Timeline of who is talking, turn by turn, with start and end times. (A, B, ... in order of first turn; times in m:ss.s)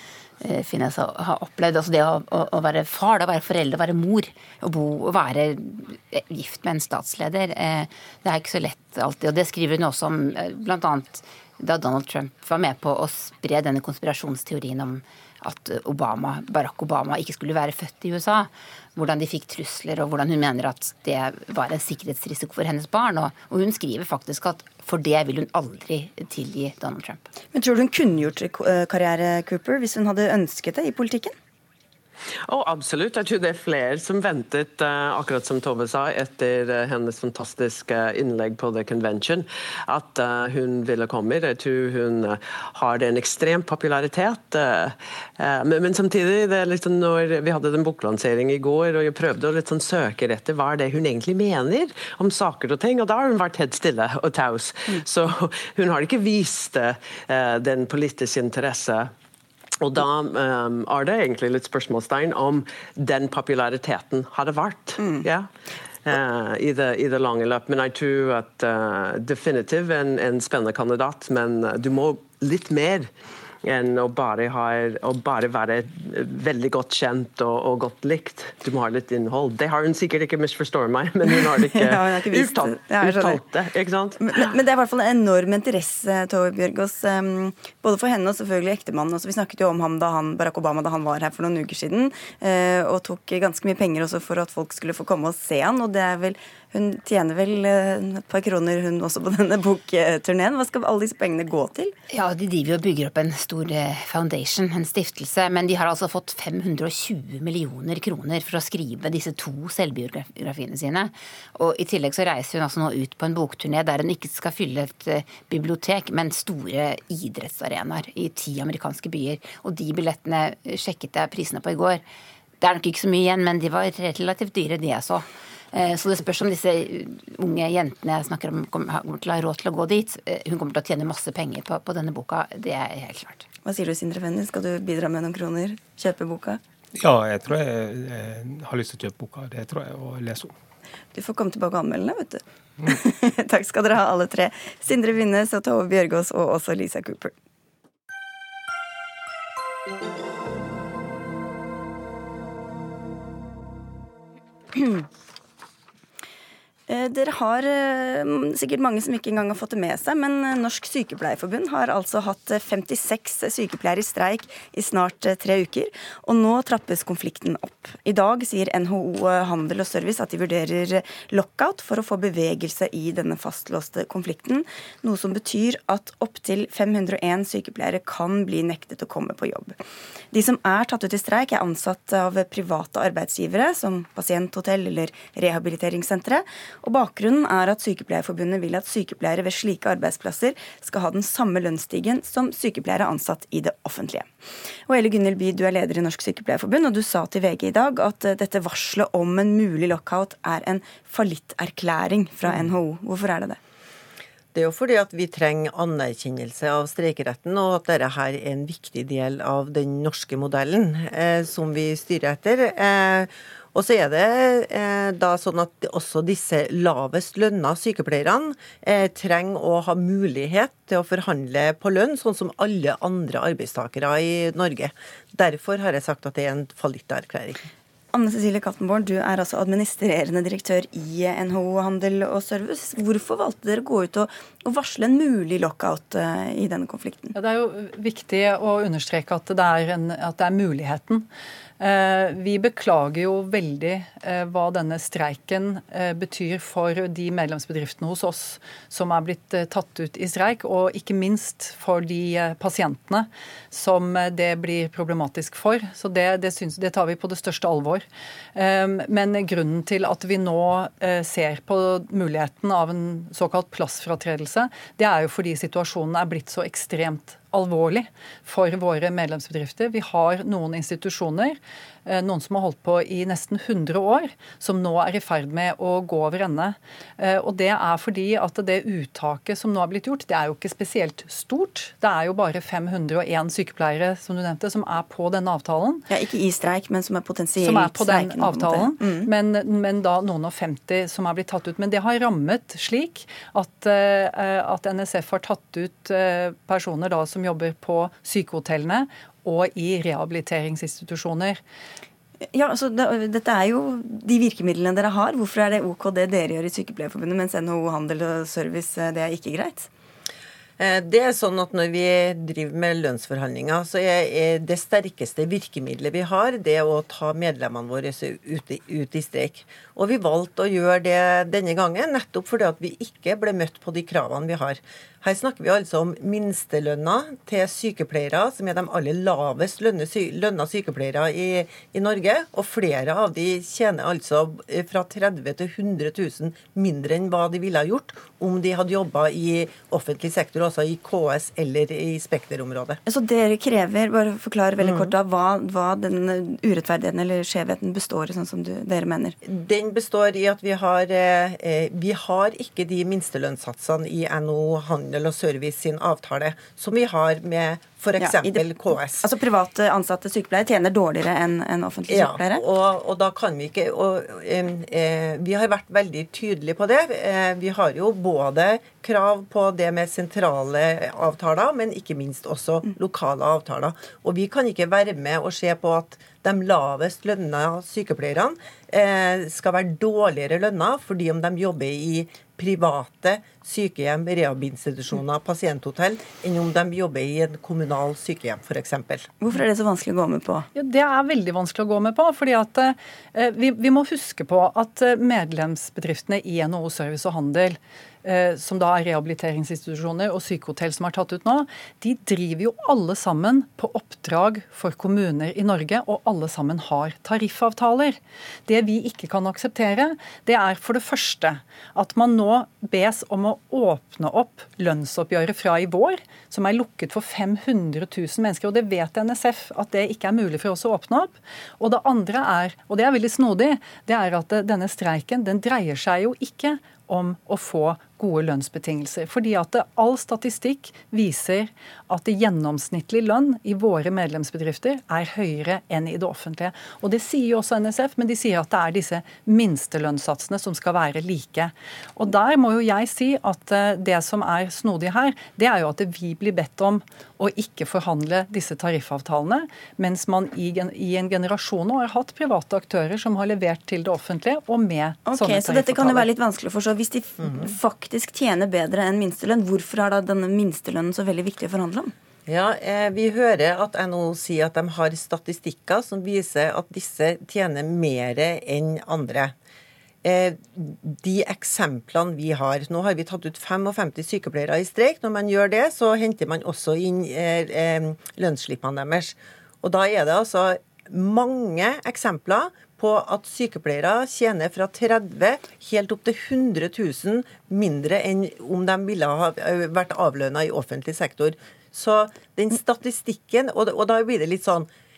0:00.4-0:27.2 A
0:27.5-0:31.4 B
0:32.5-0:59.1 C
0:59.8-1:05.5 C
1:06.0-1:13.1 C
1:13.6-1:24.5 C
1:21.6-1:23.4 B
1:24.2-1:41.9 B
1:42.1-2:02.0 A
2:02.6-2:13.5 A
2:13.6-2:16.6 B
2:17.0-2:20.5 D
2:21.1-2:27.3 B
2:34.7-2:35.1 B
2:36.9-2:59.8 B
3:00.3-3:14.3 B
3:14.9-3:23.6 B
3:24.5-3:47.7 E
3:48.1-3:57.3 B
3:57.3-4:01.3 F
4:01.8-4:46.1 F
4:46.1-4:49.3 B
4:47.6-5:01.6 F
5:02.5-5:09.9 B
5:10.8-5:43.0 E
5:43.1-5:49.4 B
5:44.8-5:45.1 E
5:49.4-5:59.3 E
5:58.2-6:02.6 B
6:02.1-6:29.3 E
6:29.4-6:30.7 B
6:30.8-7:36.3 F
7:35.3-7:42.1 B
7:37.4-7:37.7 E
7:42.5-7:49.5 E
7:50.2-8:14.9 E